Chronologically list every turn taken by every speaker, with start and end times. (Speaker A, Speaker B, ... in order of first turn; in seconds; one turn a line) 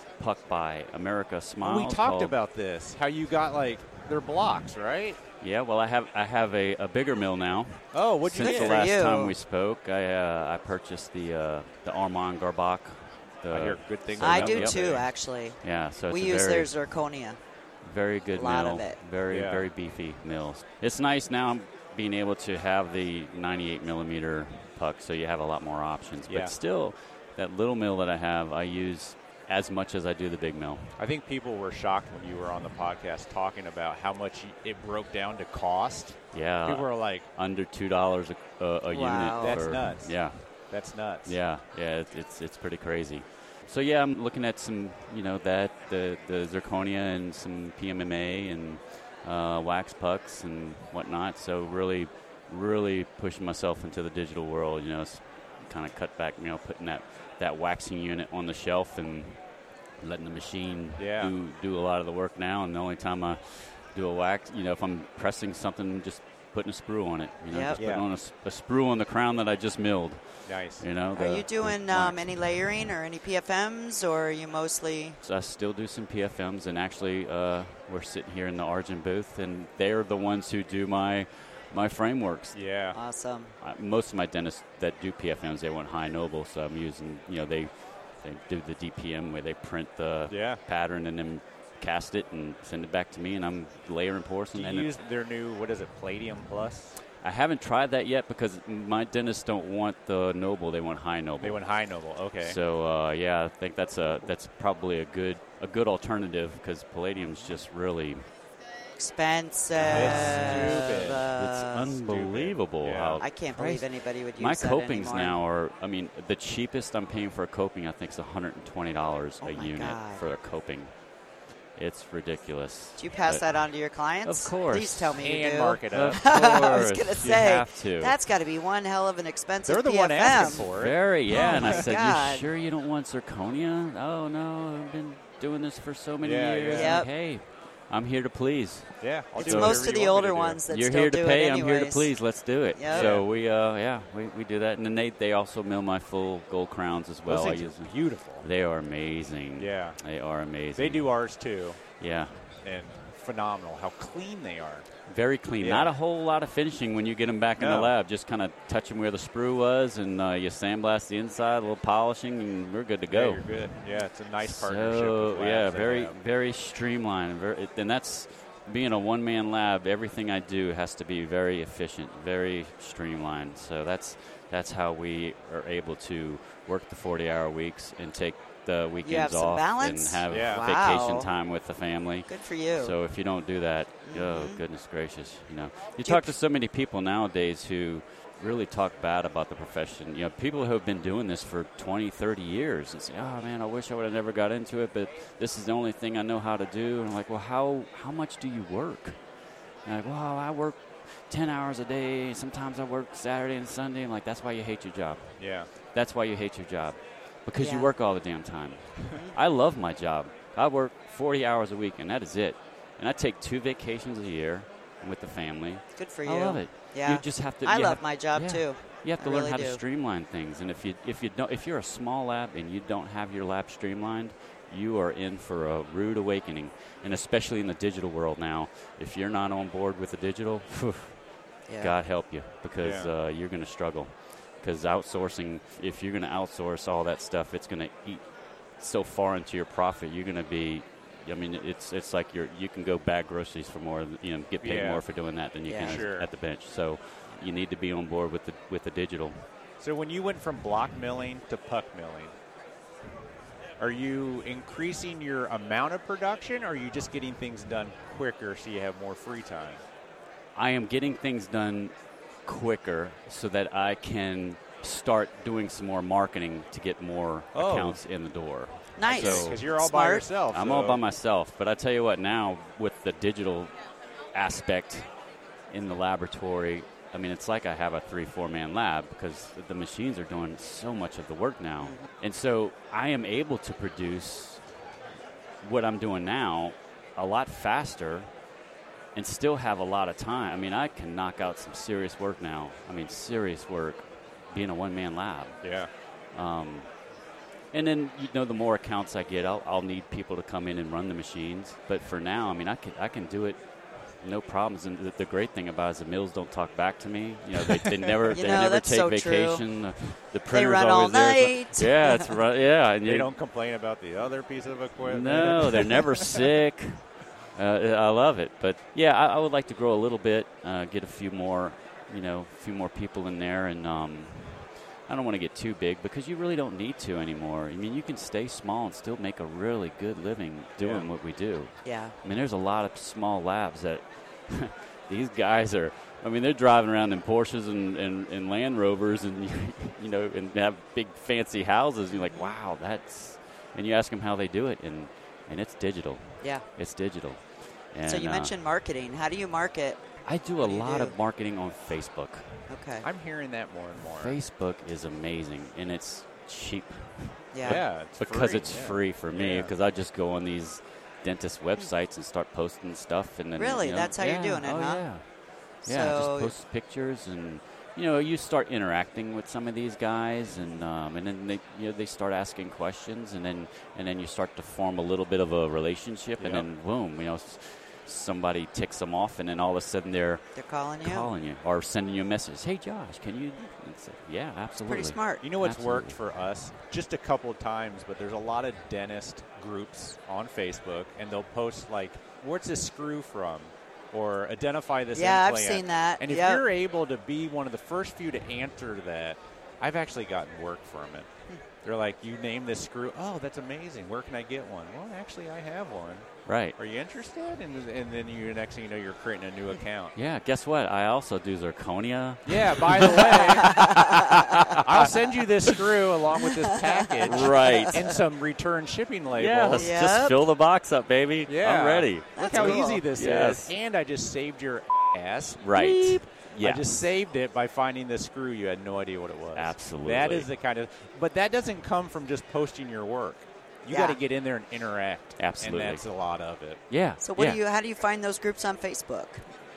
Speaker A: 0.1-2.4
Speaker B: 1.6-5.2
Speaker A: 5.4-16.8
Speaker B: 7.9-8.9
Speaker C: 8.4-9.4
Speaker B: 13.5-15.0
Speaker C: 14.2-17.4
Speaker A: 17.8-30.9
Speaker C: 18.3-19.0
Speaker B: 19.3-19.7
Speaker B: 26.3-26.6
Speaker B: 31.0-37.3
Speaker A: 36.3-40.7
Speaker C: 38.9-39.6
Speaker B: 39.4-41.4
Speaker A: 41.2-59.4
Speaker A: 60.0-72.8
Speaker B: 61.0-61.3
Speaker C: 67.5-67.8
Speaker B: 67.8-68.1
Speaker B: 70.5-70.9
Speaker C: 71.1-75.2
Speaker A: 75.2-82.7
Speaker B: 82.5-83.0
Speaker C: 82.9-83.5
Speaker A: 83.6-94.9
Speaker B: 90.3-90.6
Speaker B: 94.5-97.0
Speaker A: 97.2-101.7
Speaker B: 101.4-102.6
Speaker A: 102.4-108.3
Speaker C: 109.0-112.0
Speaker A: 109.8-121.0
Speaker B: 109.9-111.3
Speaker B: 112.0-113.2
Speaker C: 113.2-115.4
Speaker C: 119.4-120.2
Speaker A: 121.8-123.5
Speaker C: 123.0-130.7
Speaker A: 124.2-125.2
Speaker B: 125.2-126.2
Speaker A: 125.8-128.2
Speaker B: 129.7-131.9
Speaker A: 130.3-140.0
Speaker C: 131.3-132.5
Speaker B: 136.2-137.0
Speaker C: 136.7-137.1
Speaker B: 139.0-140.6
Speaker C: 139.3-143.2
Speaker A: 140.7-151.2
Speaker B: 142.9-143.2
Speaker B: 147.3-148.5
Speaker B: 149.6-150.0
Speaker B: 150.7-151.9
Speaker A: 152.0-152.6
Speaker B: 152.6-154.9
Speaker A: 155.1-199.2
Speaker B: 155.6-155.9
Speaker B: 157.6-157.9
Speaker B: 163.1-166.2
Speaker C: 179.0-181.3
Speaker B: 180.3-180.6
Speaker C: 182.3-182.9
Speaker C: 184.1-184.6
Speaker C: 186.0-186.3
Speaker A: 199.8-231.2
Speaker B: 205.4-205.7
Speaker C: 207.6-207.9
Speaker C: 215.9-219.8
Speaker C: 231.7-231.9
Speaker A: 231.8-238.3
Speaker B: 232.8-233.1
Speaker A: 238.8-249.4
Speaker B: 244.6-245.1
Speaker C: 245.7-246.1
Speaker B: 245.8-246.3
Speaker B: 249.8-252.3
Speaker B: 253.8-259.8
Speaker A: 260.6-269.8
Speaker B: 267.5-268.0
Speaker C: 269.0-270.4
Speaker B: 269.1-271.0
Speaker A: 270.4-273.8
Speaker A: 274.3-275.1
Speaker A: 275.7-284.6
Speaker C: 281.8-282.1
Speaker A: 285.6-288.3
Speaker A: 289.1-295.6
Speaker B: 295.6-295.9
Speaker A: 296.3-296.9
Speaker A: 297.7-303.6
Speaker A: 304.2-313.3
Speaker C: 308.3-309.7
Speaker C: 310.5-312.3
Speaker B: 313.1-316.3
Speaker A: 315.0-348.6
Speaker B: 330.8-331.1
Speaker C: 331.8-332.2
Speaker C: 342.1-342.5
Speaker C: 346.4-346.7
Speaker C: 348.1-350.0
Speaker A: 350.2-352.6
Speaker C: 350.6-351.2
Speaker C: 352.7-353.1
Speaker B: 353.0-354.4
Speaker A: 354.1-380.4
Speaker C: 357.5-357.8
Speaker B: 357.7-359.7
Speaker C: 363.6-365.1
Speaker C: 365.8-366.5
Speaker B: 376.4-376.7
Speaker C: 380.6-381.3
Speaker A: 381.0-386.2
Speaker C: 384.9-385.5
Speaker B: 385.4-401.3
Speaker C: 395.1-396.6
Speaker B: 401.8-410.1
Speaker A: 406.5-406.8
Speaker A: 410.1-415.1
Speaker B: 412.5-413.9
Speaker C: 413.6-414.3
Speaker B: 414.8-419.9
Speaker A: 415.7-415.9
Speaker C: 416.5-417.9
Speaker A: 417.2-418.1
Speaker A: 419.3-423.8
Speaker C: 419.8-420.4
Speaker B: 421.5-436.8
Speaker C: 422.4-423.1
Speaker A: 425.6-426.9
Speaker A: 429.5-430.5
Speaker C: 433.9-434.2
Speaker A: 435.4-436.1
Speaker A: 436.9-437.6
Speaker C: 437.2-439.4